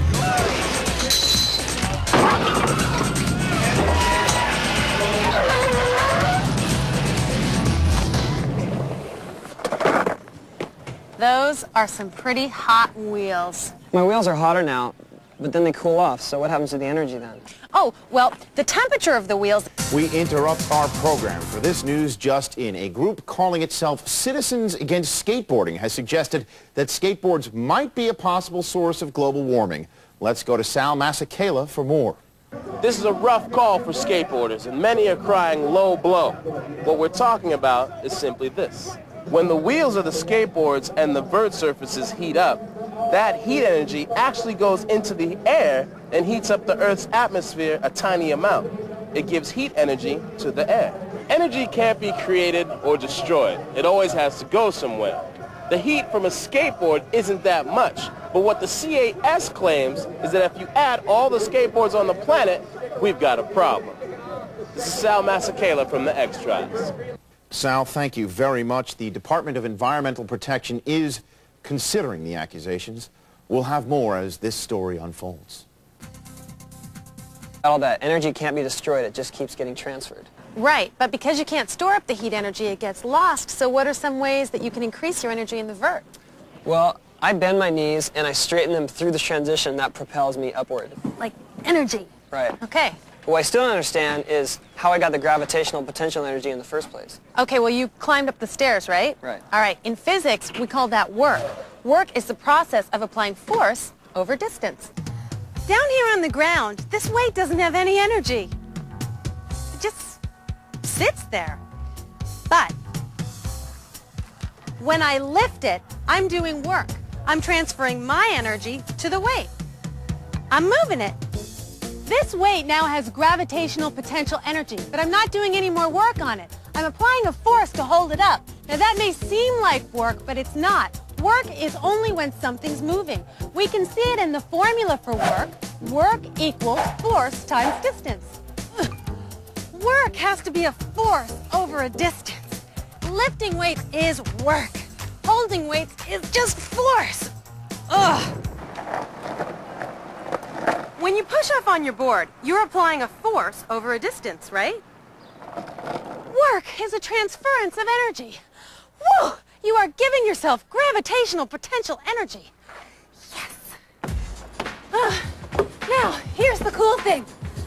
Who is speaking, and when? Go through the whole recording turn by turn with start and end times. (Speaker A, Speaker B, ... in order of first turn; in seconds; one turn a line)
Speaker A: 11.2-13.7
Speaker B: 13.9-17.5
Speaker A: 17.7-19.8
Speaker C: 19.9-32.2
Speaker D: 32.8-64.0
Speaker D: 64.8-66.9
Speaker C: 67.5-75.7
Speaker B: 77.6-80.3
Speaker A: 80.5-86.1
Speaker B: 86.7-91.0
Speaker A: 91.2-93.0
Speaker B: 92.3-92.6
Speaker B: 93.2-97.2
Speaker A: 97.3-104.9
Speaker A: 105.7-108.5
Speaker A: 109.7-110.2
Speaker A: 110.8-111.6
Speaker A: 112.5-112.8
Speaker A: 114.8-119.5
Speaker A: 120.5-121.2
Speaker A: 122.1-138.9
Speaker A: 139.7-147.3
Speaker A: 147.9-148.4
Speaker A: 151.0-154.8
Speaker A: 156.3-158.4
Speaker A: 159.0-162.5
Speaker A: 163.3-163.8
Speaker A: 164.9-167.3